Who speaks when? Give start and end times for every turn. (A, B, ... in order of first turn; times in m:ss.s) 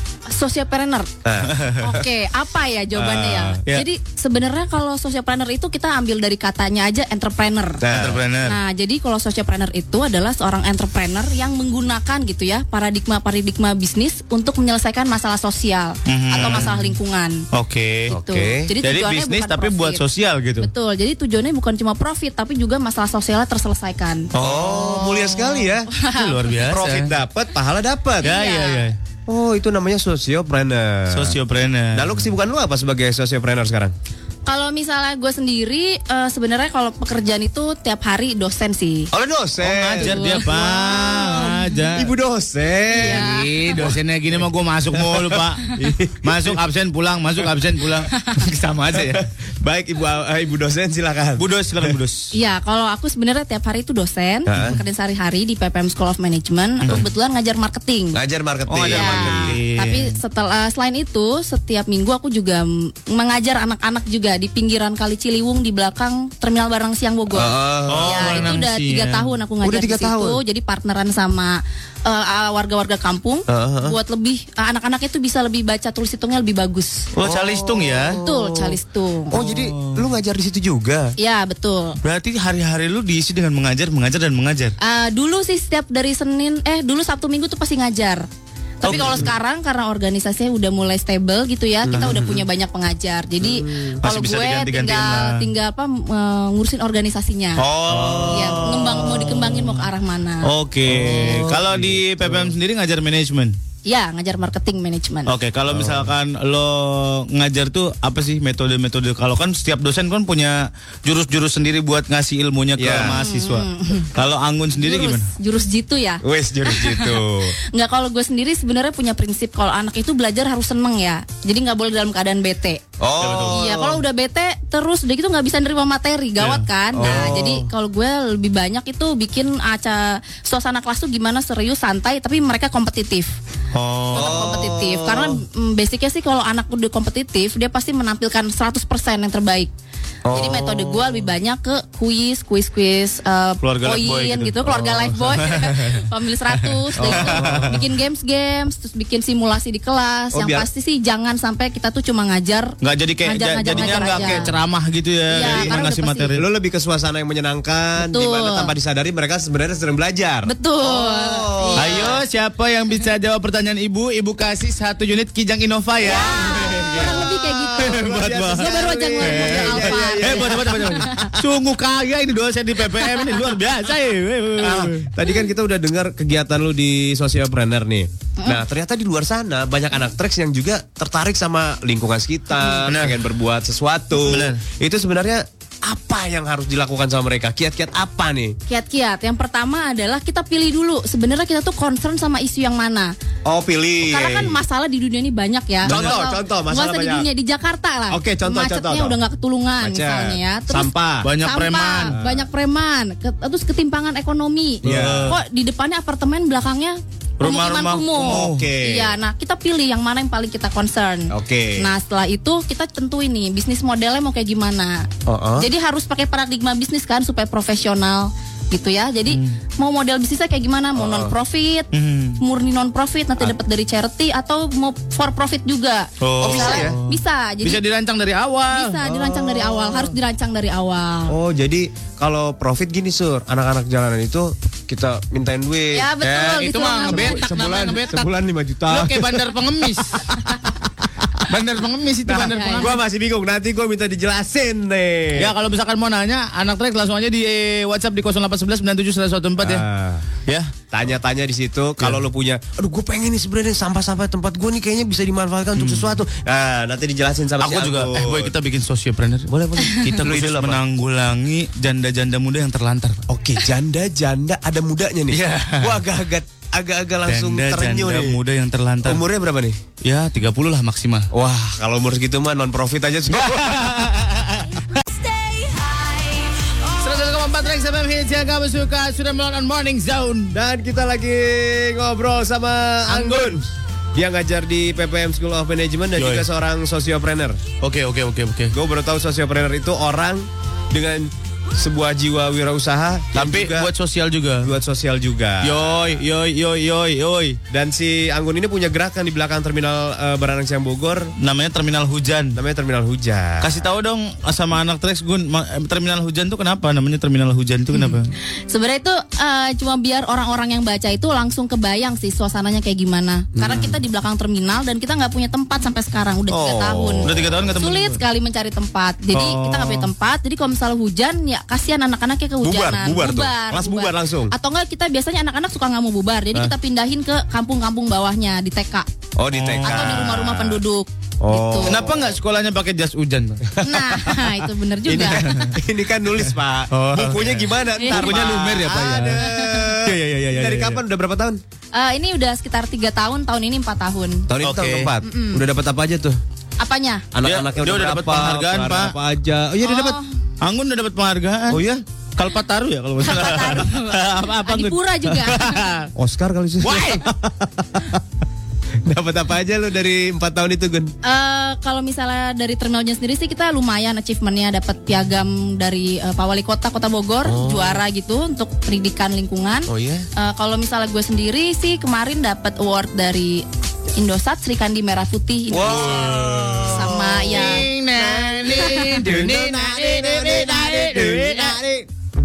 0:00.3-0:01.2 A
0:01.2-0:02.0 B
0:01.5-0:01.8 C
0:01.8-0:07.8 A
0:02.9-0:03.6 B
0:07.8-0:08.2 B
0:07.9-0:08.6 C
0:08.4-0:17.4 A
0:16.0-0:16.9 C
0:16.3-0:16.7 B
0:17.5-0:18.2 C
0:18.1-0:18.7 B
0:18.1-0:20.0 A
0:18.8-0:20.7 C
0:20.6-0:24.3 A
0:24.3-0:27.1 C
0:24.3-0:25.9 B
0:25.9-0:26.5 A
0:26.6-0:28.3 B
0:28.2-0:28.9 A
0:28.2-0:28.9 C
0:29.3-0:31.4 B
0:31.1-0:32.3 C
0:31.9-0:33.9 B
0:34.4-0:39.1 A
0:39.1-0:44.0 B
0:39.6-0:42.1 C
0:40.0-0:41.2 A
0:42.9-0:43.8 A
0:43.0-0:45.7 C
0:44.9-0:46.6 B
0:46.2-0:49.2 C
0:49.0-0:51.9 B
0:51.4-0:52.3 C
0:52.3-0:58.2 A
0:54.5-0:54.8 B
0:58.1-0:59.6 B
0:58.7-1:00.2 C
0:58.9-1:17.0 A
1:07.3-1:08.6 B
1:07.9-1:09.3 C
1:09.6-1:10.4 B
1:13.5-1:14.0 B
1:17.1-1:18.2 C
1:17.2-1:18.8 B
1:18.1-1:19.4 A
1:19.3-1:21.1 B
1:19.3-1:20.0 C
1:21.2-1:22.0 A
1:22.0-1:24.7 C
1:24.8-1:28.2 A
1:28.8-1:37.6 A
1:28.8-1:29.3 C
1:28.8-1:29.3 B
1:31.8-1:32.4 B
1:33.4-1:34.0 B
1:34.0-1:35.4 C
1:37.6-1:39.8 C
1:37.8-1:38.6 B
1:38.3-1:40.5 A
1:40.4-1:43.6 C
1:40.8-1:42.5 B
1:43.8-1:45.3 A
1:45.2-1:55.3 C
1:45.7-1:46.1 B
1:52.8-1:53.2 B
1:53.0-1:54.1 A
1:54.8-1:57.2 A
1:56.2-1:57.6 B
1:57.7-2:02.9 A
2:03.0-2:04.0 B
2:03.2-2:03.6 C
2:03.4-2:13.3 A
2:06.4-2:07.4 C
2:06.9-2:07.7 B
2:13.7-2:14.7 C
2:14.1-2:15.4 B
2:14.1-2:19.7 A
2:20.2-2:21.3 B
2:20.3-2:34.5 A
2:23.6-2:25.9 C
2:24.6-2:25.4 B
2:26.9-2:27.8 C
2:27.0-2:27.9 B
2:30.3-2:30.7 B
2:32.8-2:36.4 C
2:33.6-2:34.5 B
2:35.3-2:36.4 A
2:35.4-2:35.8 B
2:36.3-2:42.2 B
2:38.0-2:38.7 A
2:40.4-2:42.1 A
2:41.8-2:55.1 C
2:46.0-2:51.3 B
2:46.0-2:48.0 A
2:48.5-2:51.2 A
2:54.6-3:08.6 B
3:02.8-3:03.2 C
3:04.1-3:04.6 C
3:08.7-3:13.1 A
3:13.4-3:14.6 B
3:14.0-3:41.9 A
3:15.8-3:17.3 B
3:15.8-3:16.2 C
3:18.1-3:19.2 B
3:19.8-3:21.3 B
3:21.2-3:22.2 C
3:22.0-3:22.5 B
3:24.8-3:25.3 B
3:24.8-3:25.4 C
3:27.4-3:28.7 C
3:28.2-3:29.1 B
3:31.3-3:31.9 B
3:35.2-3:35.7 B
3:39.3-3:39.6 C
3:40.9-3:41.3 B
3:41.9-3:42.4 C
3:42.4-3:47.8 A
3:46.2-3:49.0 C
3:46.4-3:47.0 B
3:48.7-3:51.3 A
3:49.0-3:50.1 B
3:51.3-3:59.5 B
3:55.9-3:57.5 A
3:56.2-3:58.3 C
3:58.9-4:00.4 C
4:01.4-4:03.0 C
4:02.2-4:05.5 B
4:02.4-4:02.9 A
4:05.4-4:09.8 C
4:09.6-4:10.2 B
4:10.9-4:18.5 B
4:15.8-4:16.1 C
4:17.6-4:23.2 C
4:19.5-4:20.8 B
4:23.3-4:28.4 B
4:25.3-4:26.0 C
4:27.3-4:29.2 C
4:29.0-4:29.8 B
4:30.0-4:31.3 C
4:31.3-4:33.9 B
4:33.3-4:34.9 C
4:37.0-4:40.5 C
4:40.5-4:47.6 B
4:43.1-4:43.6 C
4:46.2-4:46.4 C
4:47.8-4:48.7 C
4:48.7-4:53.9 B
4:53.3-4:54.7 C
4:54.6-4:56.2 B
4:55.6-4:57.6 C
4:57.7-5:01.3 B
5:01.4-5:02.6 C
5:02.5-5:03.8 B
5:03.6-5:08.3 C
5:08.7-5:29.1 A
5:13.6-5:14.0 B
5:16.5-5:17.6 B
5:17.2-5:18.2 C
5:19.3-5:20.1 C
5:22.6-5:24.5 B
5:29.4-5:30.8 B
5:29.5-5:30.3 C
5:29.8-5:32.0 A
5:31.4-5:32.3 B
5:31.8-5:33.8 C
5:33.8-5:35.6 A
5:35.0-5:41.6 B
5:35.1-5:35.7 C
5:36.9-5:41.0 C
5:38.0-5:38.6 A
5:41.9-5:44.5 A
5:44.5-5:46.4 B
5:44.6-5:45.1 C
5:45.2-5:45.6 A
5:46.8-5:47.3 A
5:47.3-5:50.2 B
5:47.4-5:49.1 C
5:49.8-5:50.3 A
5:50.6-5:51.8 C
5:51.7-5:52.0 B
5:52.4-5:56.1 C
5:53.2-5:55.8 A
5:56.1-5:58.2 B
5:56.8-5:57.3 C
5:59.0-6:01.1 B
6:01.2-6:16.2 A
6:07.4-6:08.0 B
6:09.9-6:10.3 B
6:15.7-6:22.1 B
6:15.8-6:21.8 C
6:16.9-6:17.9 A
6:18.8-6:19.0 A